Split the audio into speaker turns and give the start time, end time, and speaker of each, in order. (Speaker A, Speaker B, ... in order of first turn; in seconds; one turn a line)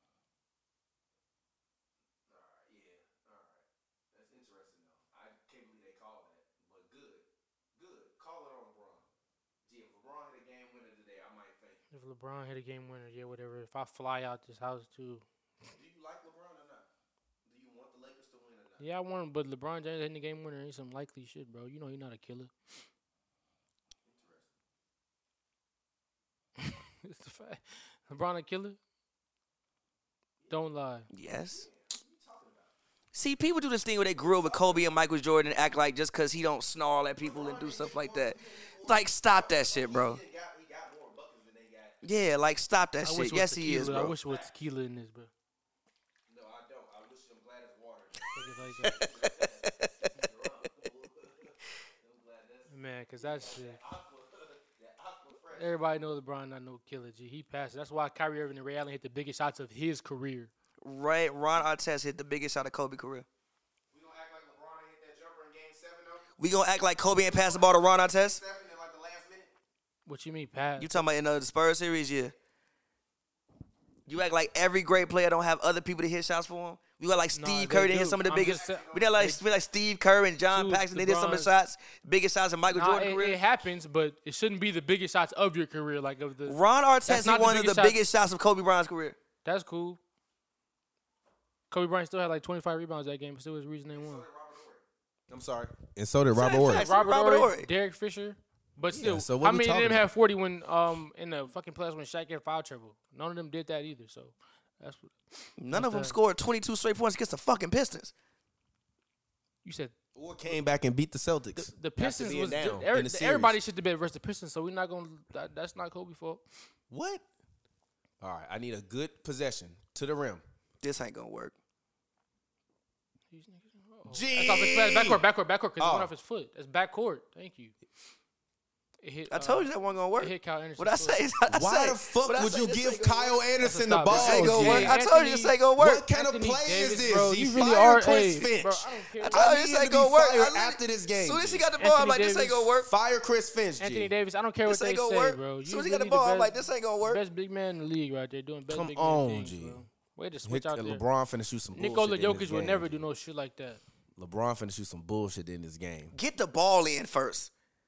Speaker A: 2.3-7.2
Speaker A: 7.7-9.1
Speaker A: 9.7-11.8
Speaker B: 11.9-15.2
Speaker A: 15.7-16.9
Speaker A: 17.4-18.9
Speaker B: 18.8-22.5
Speaker A: 24.1-24.5
Speaker B: 26.6-28.8
Speaker B: 30.5-31.1
Speaker C: 31.1-31.6
Speaker A: 31.3-32.7
Speaker C: 33.1-40.2
Speaker A: 34.4-34.9
Speaker A: 37.2-42.0
Speaker C: 42.0-44.1
Speaker B: 43.0-45.3
Speaker A: 44.1-44.5
Speaker A: 46.3-55.8
Speaker B: 48.3-49.0
Speaker C: 48.9-49.9
Speaker B: 52.7-53.8
Speaker B: 55.5-60.5
Speaker C: 60.8-63.3
Speaker A: 63.9-66.3
Speaker C: 66.4-68.4
Speaker A: 67.0-69.5
Speaker B: 70.0-71.0
Speaker C: 70.8-72.3
Speaker C: 74.1-83.4
Speaker B: 77.3-79.4
Speaker A: 78.3-79.2
Speaker B: 80.5-81.5
Speaker B: 82.7-88.0
Speaker C: 86.5-89.2
Speaker B: 89.4-90.0
Speaker B: 91.7-94.3
Speaker A: 93.9-96.9
Speaker C: 96.3-97.7
Speaker B: 96.5-106.2
Speaker A: 98.9-100.1
Speaker C: 105.6-108.1
Speaker B: 109.6-109.9
Speaker A: 110.1-113.6
Speaker B: 111.5-116.4
Speaker A: 116.9-117.2
Speaker A: 118.2-120.4
Speaker C: 120.8-121.5
Speaker B: 123.3-127.8
Speaker A: 124.0-125.2
Speaker A: 125.8-126.1
Speaker B: 129.0-131.3
Speaker C: 129.3-133.4
Speaker A: 131.5-134.9
Speaker B: 133.6-135.6
Speaker C: 134.1-136.0
Speaker A: 135.8-141.7
Speaker B: 136.1-139.5
Speaker C: 139.2-142.9
Speaker B: 141.8-142.7
Speaker A: 142.8-144.1
Speaker B: 143.8-151.0
Speaker C: 144.7-147.2
Speaker A: 148.7-149.8
Speaker A: 150.4-153.0
Speaker B: 151.7-153.8
Speaker A: 154.2-156.1
Speaker C: 156.1-157.5